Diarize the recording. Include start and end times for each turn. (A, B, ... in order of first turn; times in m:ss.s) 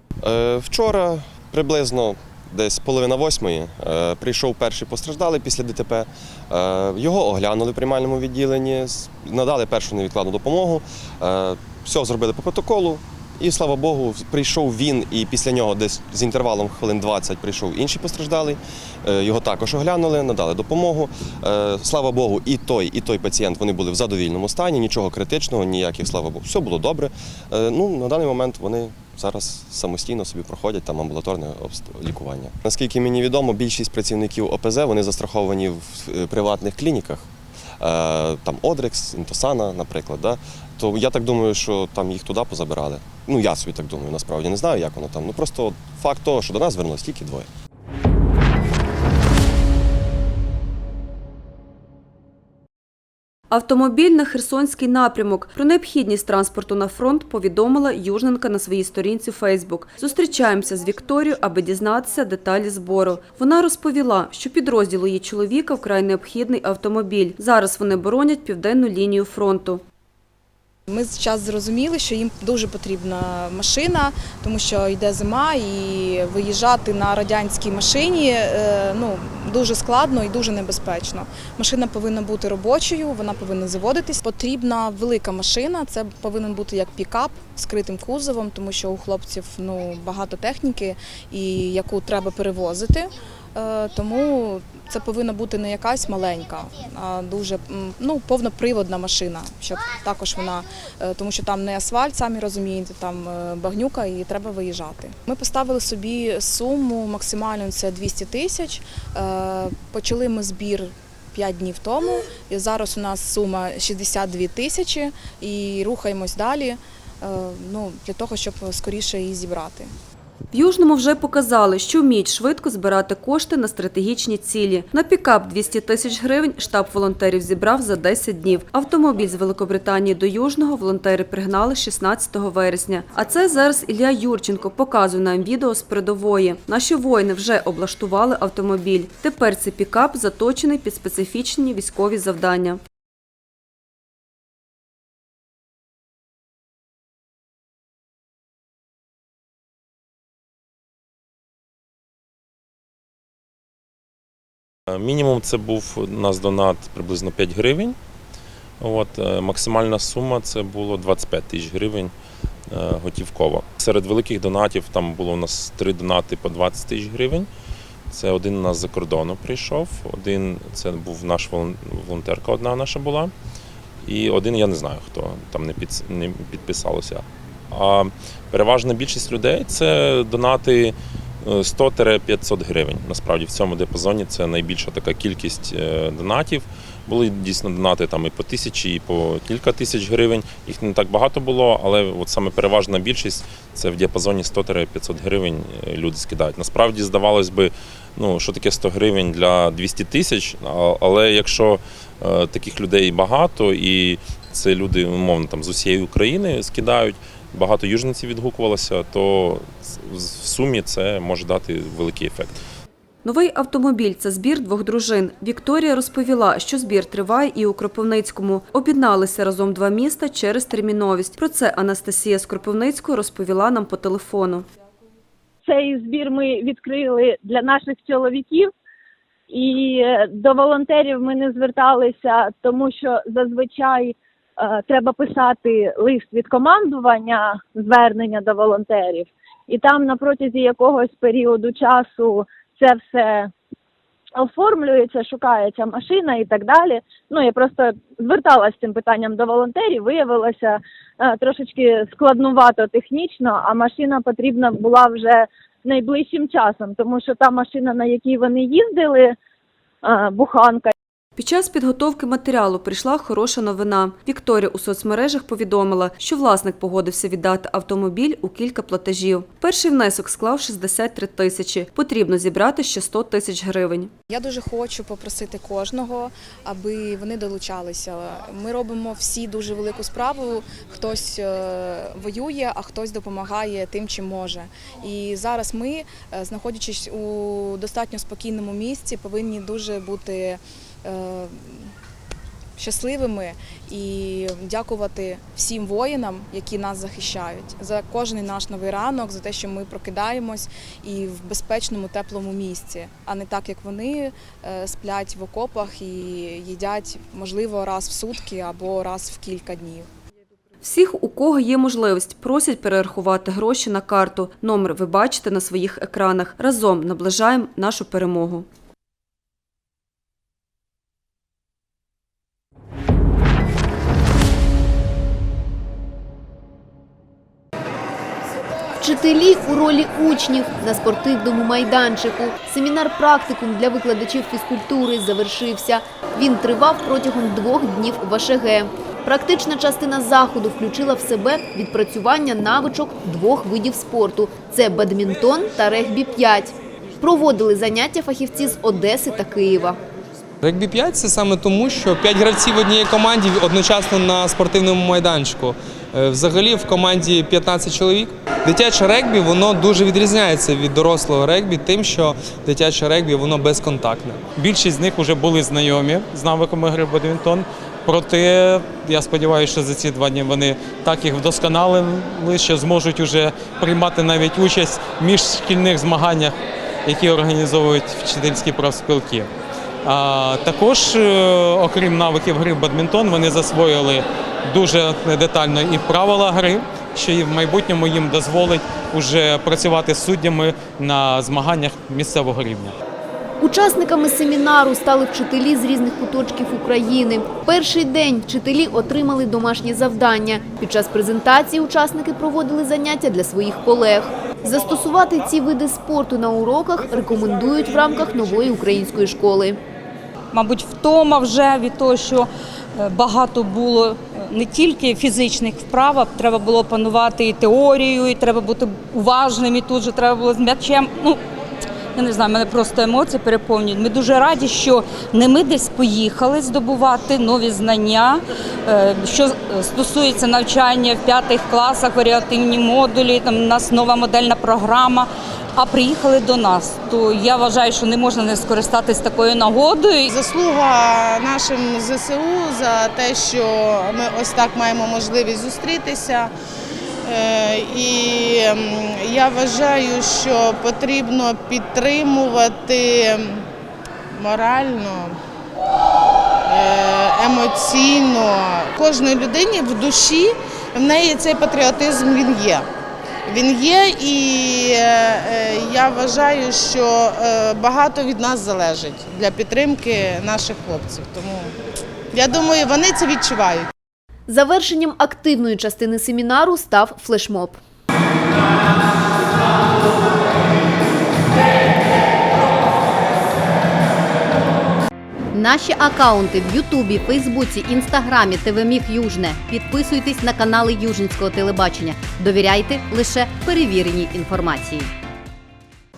0:00.2-0:37.3 A
0:37.8-0:47.5 A
0:53.5-1:09.8 B
1:10.9-1:59.9 C
2:00.5-2:22.8 B
2:34.9-2:38.0 D
2:38.8-2:42.1 D
2:42.7-2:47.5 D
2:48.1-2:53.3 D
2:54.0-3:32.6 D
3:33.2-3:44.6 B
3:45.6-3:48.7 E
3:49.5-4:03.5 E
4:04.3-4:19.4 E
4:20.0-4:20.9 E
4:21.4-4:34.1 B
4:34.3-4:51.9 C
4:52.8-5:10.0 C
5:10.8-5:18.6 B
5:29.0-5:50.0 F
5:50.6-6:04.4 G
6:04.5-6:19.5 H
6:20.0-6:32.9 H
6:33.6-6:49.8 F
6:50.5-7:01.4 I
7:02.2-7:20.3 I
7:20.3-7:26.5 J
7:27.3-7:33.6 J
7:34.3-7:35.3 J
7:36.7-7:42.8 J
7:43.5-7:51.7 J
7:52.3-7:53.9 J
7:54.5-7:57.8 F
8:05.5-8:15.1 K